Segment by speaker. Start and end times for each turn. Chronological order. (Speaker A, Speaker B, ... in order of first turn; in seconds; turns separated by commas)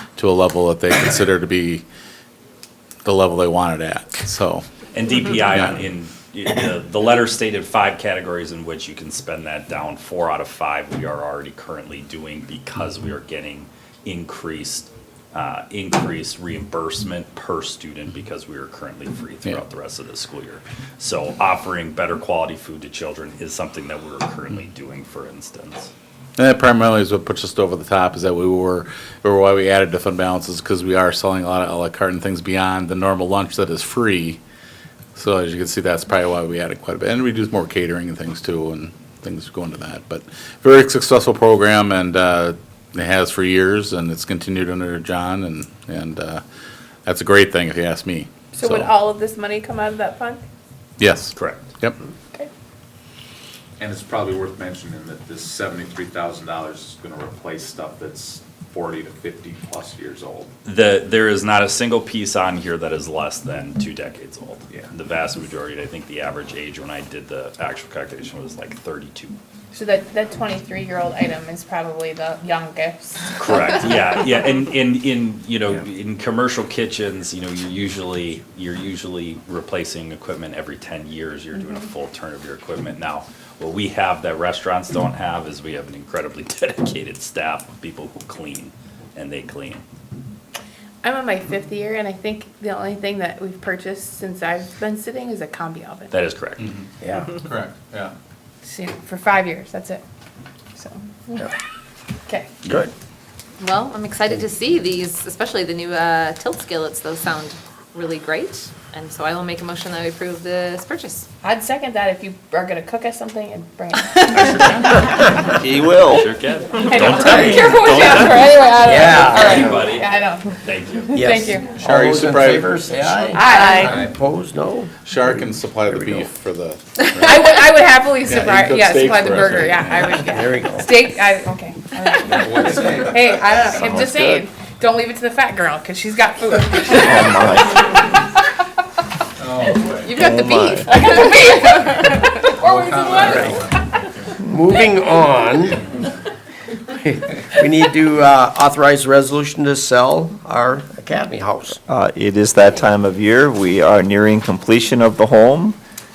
Speaker A: 0.2-1.9, Speaker A: 3.0-4.7, Speaker B: 4.9-25.9, Speaker A: 26.4-34.4, Speaker A: 35.1-46.4, Speaker A: 47.1-48.9, Speaker C: 48.5-50.4, Speaker A: 51.0-52.0, Speaker B: 51.4-51.7, Speaker D: 53.8-60.5, Speaker B: 60.6-69.4, Speaker C: 69.7-73.3, Speaker B: 73.4-89.8, Speaker C: 91.0-96.2, Speaker B: 96.1-96.7, Speaker A: 96.6-98.1, Speaker E: 97.0-97.3, Speaker C: 98.6-100.0, Speaker C: 100.8-101.5, Speaker C: 102.3-102.6, Speaker F: 103.6-111.3, Speaker C: 111.4-115.3, Speaker G: 115.5-116.3, Speaker B: 115.8-121.2, Speaker C: 116.9-121.8, Speaker E: 117.3-117.6, Speaker G: 118.0-118.3, Speaker E: 118.8-119.9, Speaker E: 121.1-126.3, Speaker A: 121.8-122.7, Speaker C: 123.3-124.1, Speaker F: 123.5-123.8, Speaker D: 123.6-124.2, Speaker A: 125.0-127.6, Speaker C: 127.2-138.0, Speaker A: 128.2-130.3, Speaker E: 130.3-131.0, Speaker D: 132.2-133.8, Speaker G: 133.7-134.4, Speaker G: 136.9-137.9, Speaker A: 139.4-140.1, Speaker F: 139.9-142.4, Speaker G: 140.2-140.9, Speaker C: 140.9-141.7, Speaker C: 142.2-143.5, Speaker A: 142.6-143.9, Speaker E: 143.3-143.6, Speaker E: 144.4-145.9, Speaker E: 146.9-151.8, Speaker G: 151.9-155.8